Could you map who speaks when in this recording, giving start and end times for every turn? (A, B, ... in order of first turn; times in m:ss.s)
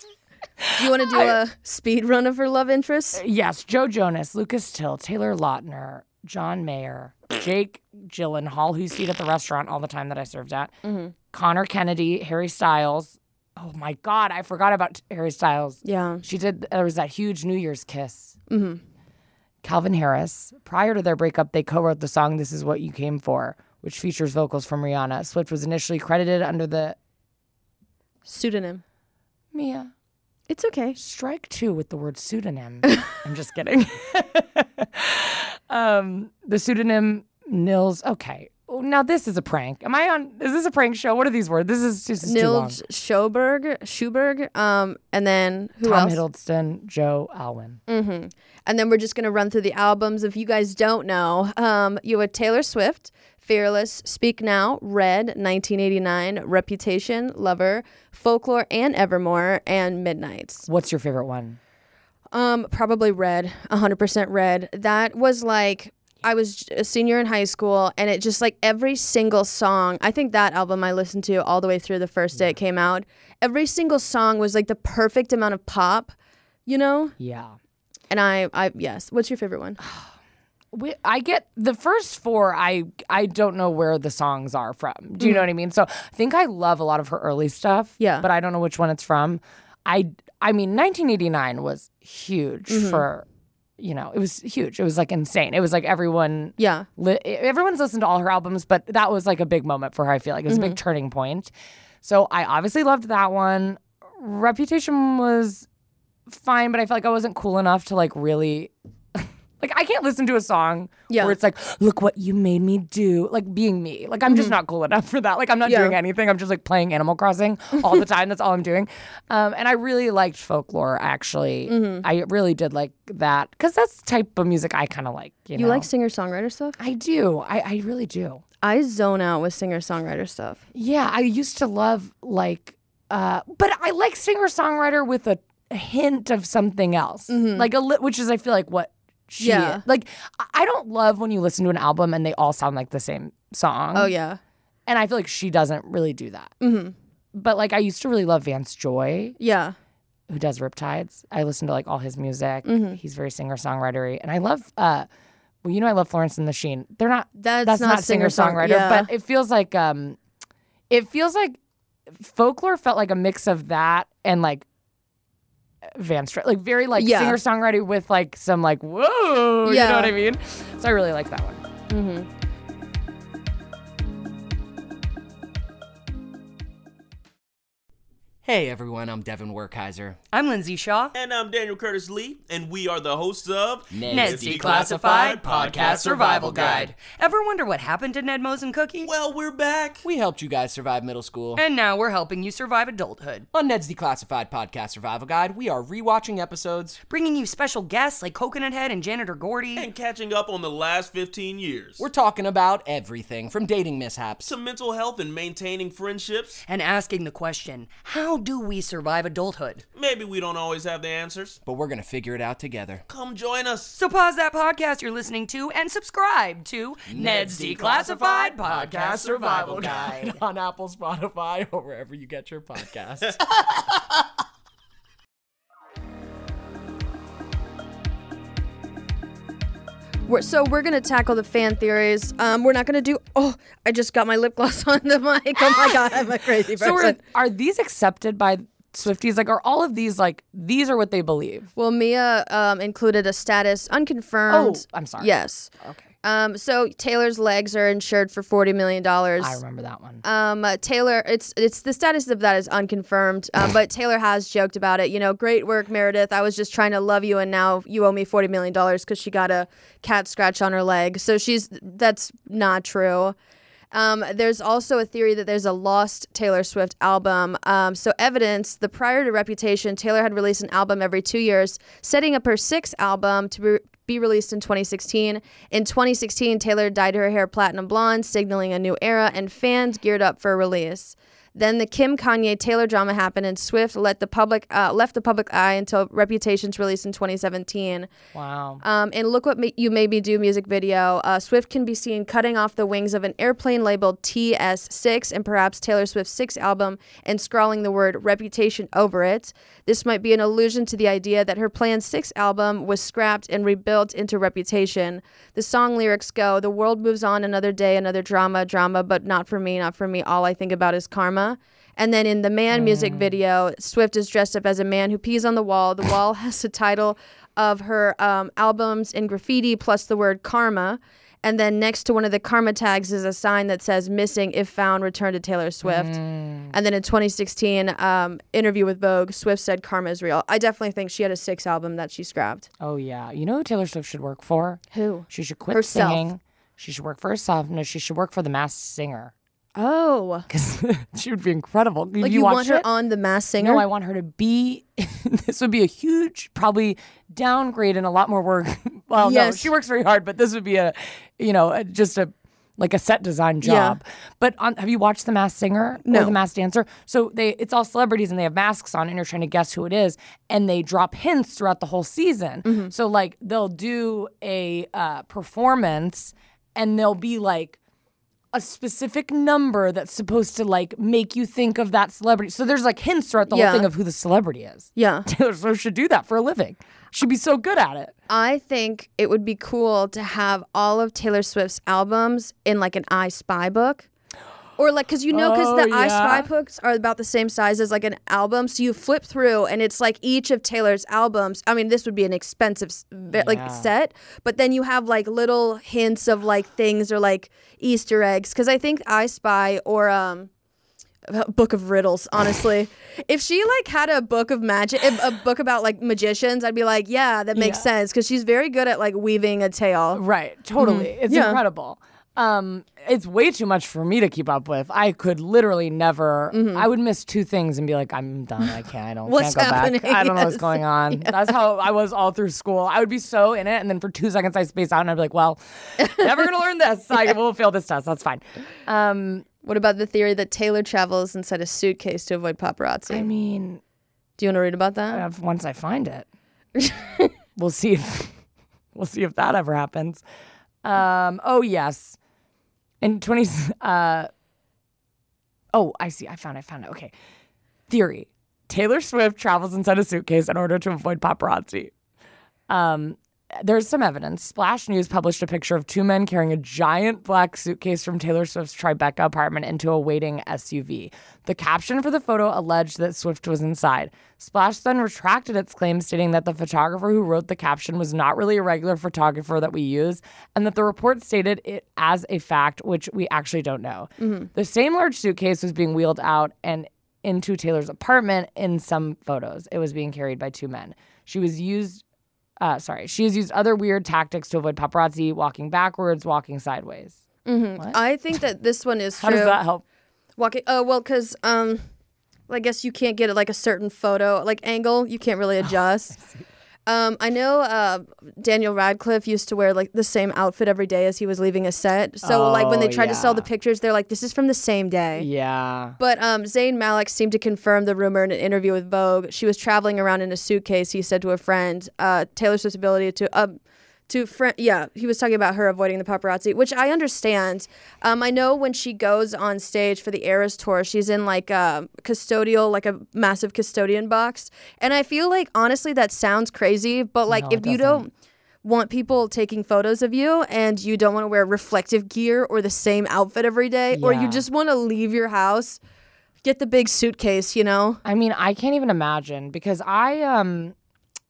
0:00.6-0:01.4 A
0:00.8-0:03.2 B
0:03.1-0:10.7 A
0:10.8-0:11.1 B
0:11.3-0:18.4 A
0:15.8-0:16.2 B
0:18.5-0:18.8 B
0:19.6-0:27.0 A
0:28.2-0:28.8 B
0:29.5-0:29.9 A
0:30.5-0:31.0 B
0:31.0-0:42.8 A
0:42.2-0:46.2 B
0:45.8-0:47.8 A
0:47.9-1:00.7 B
1:00.6-1:01.6 A
1:02.3-1:16.1 B
1:16.6-1:17.2 B
1:17.2-1:17.6 A
1:18.1-1:19.8 B
1:19.8-1:20.1 A
1:20.7-1:33.2 A
1:28.0-1:28.2 B
1:32.7-1:33.0 B
1:33.8-1:45.6 A
1:36.6-1:36.9 B
1:40.5-1:40.8 B
1:46.3-2:05.9 A
1:51.1-1:51.4 B
1:54.3-1:54.6 B
1:55.6-1:56.0 B
2:01.7-2:02.0 B
2:05.6-2:06.8 B
2:06.8-2:08.4 A
2:08.6-2:10.6 B
2:10.7-2:24.1 A
2:17.3-2:17.7 B
2:19.4-2:19.8 B
2:23.9-2:24.4 B
2:24.9-2:26.5 A
2:26.6-2:26.9 B
2:27.3-2:29.4 A
2:29.4-2:29.8 B
2:30.3-2:35.1 A
2:32.6-2:33.0 B
2:35.6-2:40.2 A
2:37.4-2:39.1 B
2:40.9-2:41.6 A
2:42.1-2:44.6 A
2:45.9-2:51.6 A
2:47.0-2:47.4 B
2:49.6-2:50.1 B
2:51.9-2:52.3 B
2:58.4-3:00.2 C
3:00.3-3:01.1 D
3:01.1-3:06.8 E
3:03.9-3:06.9 C
3:04.1-3:09.1 D
3:09.0-3:10.0 E
3:10.0-3:11.6 C
3:11.6-3:13.5 D
3:13.5-3:17.0 C
3:17.1-3:19.9 D
3:19.8-3:22.0 E
3:22.0-3:24.6 C
3:24.4-3:26.6 E
3:26.6-3:29.8 D
3:29.9-3:31.6 E
3:31.6-3:33.0 C
3:33.1-3:34.0 E
3:33.9-3:39.9 D
3:37.1-3:44.0 C
3:39.0-3:40.3 E
3:50.2-3:57.2 B
3:56.8-4:01.7 A
4:01.8-4:05.7 B
4:04.5-4:06.1 A
4:06.2-4:09.6 B
4:09.4-4:10.2 A
4:10.2-4:23.4 B
4:23.9-4:48.1 B
4:48.3-4:48.8 A
4:48.8-5:26.2 B
5:12.7-5:13.4 A
5:25.8-5:26.7 A
5:26.7-5:32.7 B
5:32.8-5:39.3 A
5:34.9-5:36.3 B
5:39.8-5:40.5 B
5:40.5-5:42.9 A
5:42.2-5:43.8 B
5:43.6-6:07.8 A
5:49.2-5:49.7 B
5:53.6-5:54.0 B
5:56.1-5:56.3 B
6:02.6-6:02.9 B
6:08.5-6:18.1 A
6:13.4-6:13.9 B
6:15.0-6:15.3 B
6:18.3-6:24.1 B
6:24.8-6:40.5 B
6:25.3-6:26.5 A
6:33.3-6:33.9 A
6:41.2-6:50.2 B
6:47.5-6:47.9 A
6:50.1-7:09.4 A
6:50.8-6:51.6 B
6:56.5-6:56.8 B
6:59.2-7:01.5 B
7:06.0-7:06.4 B
7:09.6-7:13.3 B
7:13.1-7:13.8 A
7:14.4-7:15.2 B
7:15.1-7:16.3 A
7:16.8-7:17.3 B
7:17.6-7:18.3 A
7:18.9-7:20.2 A
7:20.8-7:22.2 A
7:23.0-7:24.3 A
7:25.7-7:27.1 A
7:27.9-7:31.9 A
7:32.7-8:02.0 A
7:54.2-7:54.5 B
8:02.6-8:07.2 A
8:07.4-8:09.6 B
8:09.2-8:09.8 A
8:10.4-8:11.8 B
8:12.5-8:16.2 B
8:16.2-8:16.4 A
8:16.8-8:25.3 B
8:22.2-8:23.5 A
8:25.2-8:26.0 A
8:26.0-8:48.1 B
8:47.3-8:48.1 A
8:48.6-8:55.8 B
8:53.9-8:54.4 A
8:56.4-8:58.0 B
8:58.0-9:00.7 A